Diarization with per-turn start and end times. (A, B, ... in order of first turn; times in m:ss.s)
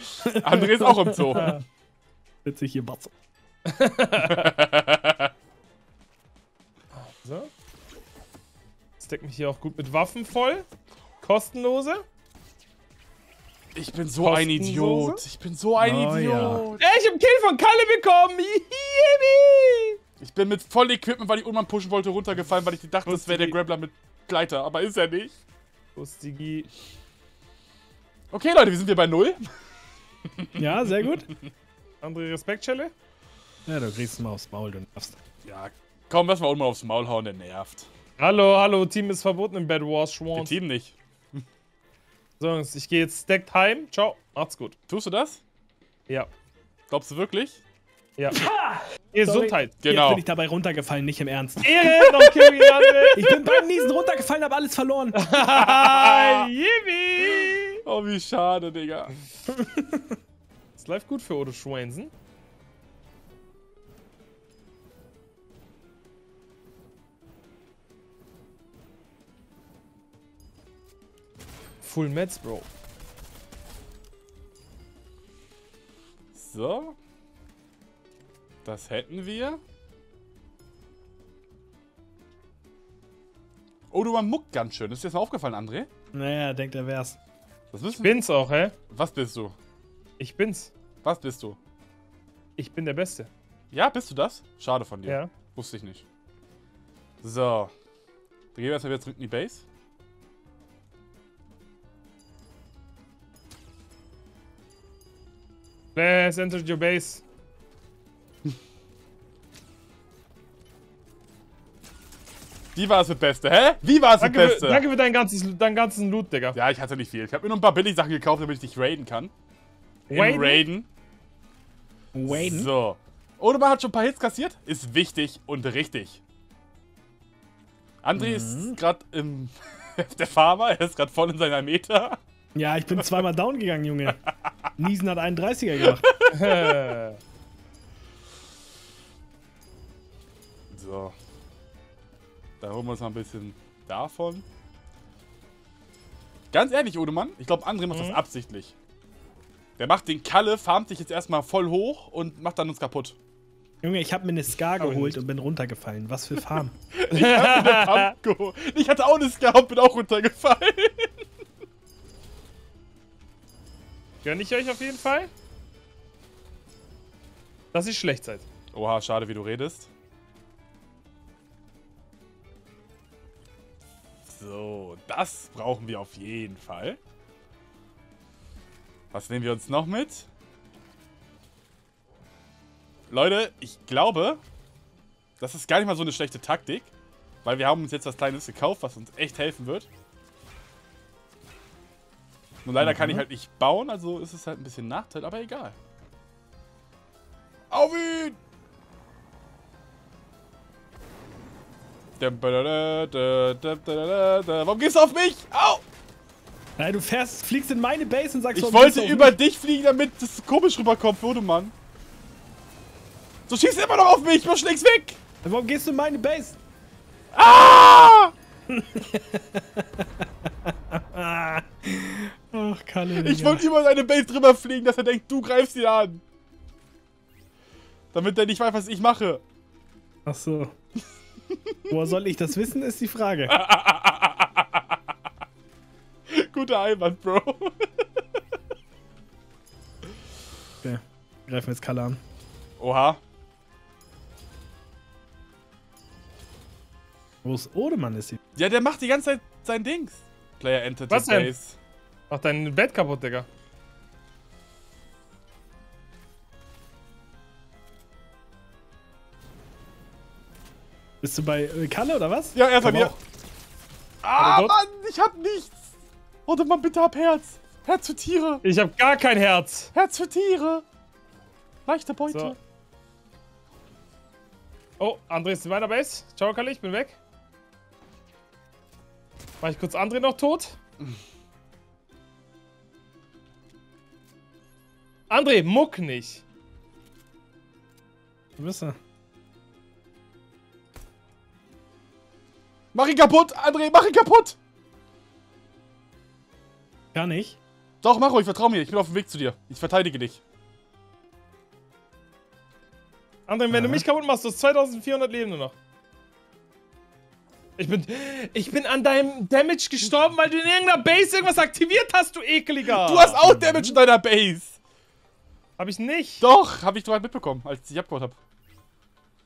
0:00.2-0:01.6 A
0:00.4-0:01.5 B
0:01.3-0:01.6 C
0:02.4-0:03.1 A
0:03.7-0:04.5 C
0:04.2-0:05.3 B
0:07.0-0:07.5 C
0:09.0-0:10.6 C
0:11.2-0:12.0 C
0:13.7-0:16.8 B
0:14.2-0:15.2 C
0:15.8-0:16.7 A
0:16.8-0:20.0 C
0:20.2-0:25.3 B
0:23.0-0:23.6 C
0:26.0-0:26.7 C
0:28.3-0:29.4 B
0:30.4-0:31.1 B
0:30.6-0:31.3 A
0:32.0-0:32.9 C
0:33.7-0:35.2 A
0:35.4-0:37.9 B
0:38.2-0:40.6 C
0:40.3-0:41.4 B
0:42.4-0:44.8 C
0:44.9-0:45.4 B
0:46.9-0:47.6 B
0:48.2-0:48.4 C
0:48.3-0:51.8 A
0:49.1-0:49.7 C
0:49.8-0:50.2 B
0:51.6-0:53.2 C
0:51.8-0:53.6 B
0:53.1-0:55.2 A
0:55.1-0:57.8 C
0:55.4-0:56.5 B
0:57.8-0:59.1 B
0:59.5-1:00.2 A
1:00.8-1:02.1 C
1:11.8-1:12.7 C
1:16.3-1:17.0 B
1:18.6-1:19.6 B
1:23.9-1:25.9 B
1:26.1-1:27.2 A
1:27.7-1:28.2 B
1:28.0-1:28.7 C
1:28.9-1:29.5 B
1:30.2-1:30.7 C
1:31.0-1:31.6 B
1:32.6-1:33.3 C
1:33.7-1:36.0 B
1:35.0-1:35.3 C
1:37.2-1:37.7 B
1:38.5-1:39.6 B
1:45.9-1:47.2 C
1:52.7-1:54.8 B
1:54.2-1:56.6 C
1:56.5-1:59.3 B
2:00.1-2:00.6 C
2:00.1-2:00.9 B
2:02.1-2:02.7 A
2:02.3-2:06.2 B
2:08.0-2:12.2 B
2:08.2-2:08.8 A
2:12.5-2:14.2 A
2:14.8-2:16.0 A
2:16.0-2:16.9 B
2:16.3-2:17.2 C
2:20.7-2:21.1 B
2:22.6-2:24.4 B
2:26.5-2:28.8 B
2:27.9-2:28.2 C
2:29.8-2:33.2 B
2:33.8-2:36.7 A
2:34.8-2:35.2 C
2:36.9-2:41.1 B
2:37.1-2:38.1 C
2:44.2-2:45.3 C
2:47.7-2:48.4 C
2:48.7-2:49.9 B
2:54.3-2:57.0 B
2:59.1-3:00.3 B
3:03.1-3:04.4 B
3:05.4-3:06.9 B
3:07.4-3:09.9 B
3:12.6-3:15.8 B
3:12.8-3:13.2 A
3:17.7-3:18.4 B
3:22.2-3:25.8 B
3:26.8-3:29.4 A
3:28.5-3:31.7 B
3:33.5-3:35.2 B
3:35.4-3:36.6 A
3:37.3-3:38.3 B
3:38.7-3:40.0 A
3:40.9-3:43.6 A
3:43.1-3:46.2 B
3:48.1-3:49.4 B
3:50.2-3:50.7 A
3:51.5-3:51.9 B
3:51.9-3:53.6 A
3:53.5-3:54.8 B
3:56.3-3:57.9 B
4:00.8-4:02.2 A
4:02.8-4:03.2 B
4:07.4-4:08.4 A
4:08.5-4:11.8 B
4:11.1-4:11.5 C
4:12.3-4:13.5 C
4:21.2-4:23.2 A
4:22.5-4:23.2 B
4:24.2-4:25.9 B
4:24.4-4:24.7 C
4:26.4-4:28.6 B
4:28.6-4:29.9 C
4:29.9-4:30.8 B
4:31.8-4:32.6 B
4:32.3-4:32.6 C
4:35.0-4:37.2 C
4:39.6-4:40.8 C
4:45.3-4:46.4 C
4:48.6-4:49.0 A
4:52.9-4:54.6 B
4:57.1-4:57.6 A
4:58.0-5:00.4 B
5:03.5-5:05.7 C
5:03.7-5:04.0 A
5:07.8-5:13.4 C
5:12.9-5:14.8 B
5:13.4-5:14.0 A
5:15.8-5:16.4 C
5:16.4-5:18.4 B